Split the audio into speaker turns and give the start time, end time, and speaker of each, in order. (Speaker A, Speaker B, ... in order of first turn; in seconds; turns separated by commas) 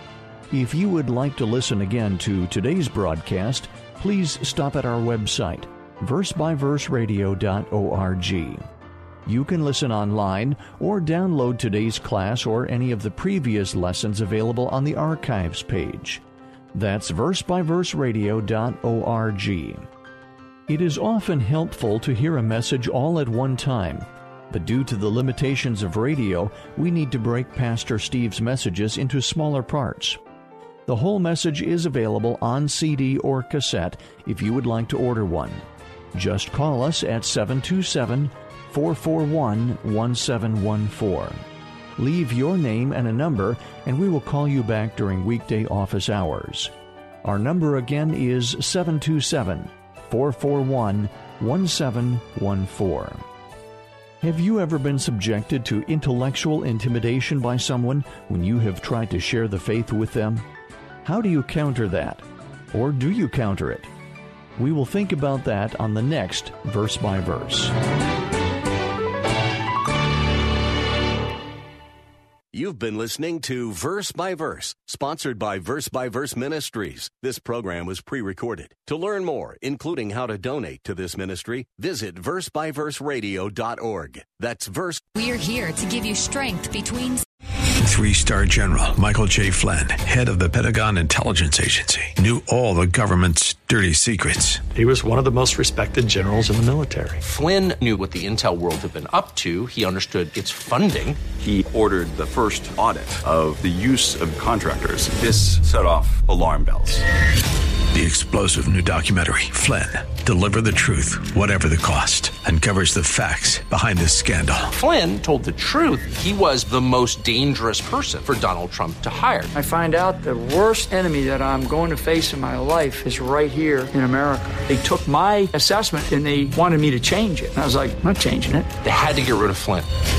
Speaker A: 0.5-8.7, Speaker A: 9.3-16.2, Speaker A: 16.7-19.9, Speaker A: 20.7-30.2, Speaker A: 30.9-41.4, Speaker A: 42.0-46.7, Speaker A: 47.2-53.3, Speaker A: 54.2-60.5, Speaker A: 61.0-63.9, Speaker A: 64.6-67.7, Speaker B: 72.5-85.1, Speaker C: 85.2-87.2, Speaker D: 87.8-94.7, Speaker E: 94.8-97.2, Speaker F: 97.2-101.2, Speaker G: 101.4-107.0, Speaker D: 107.9-114.7, Speaker F: 114.8-119.5, Speaker H: 119.5-128.7, Speaker F: 128.8-129.9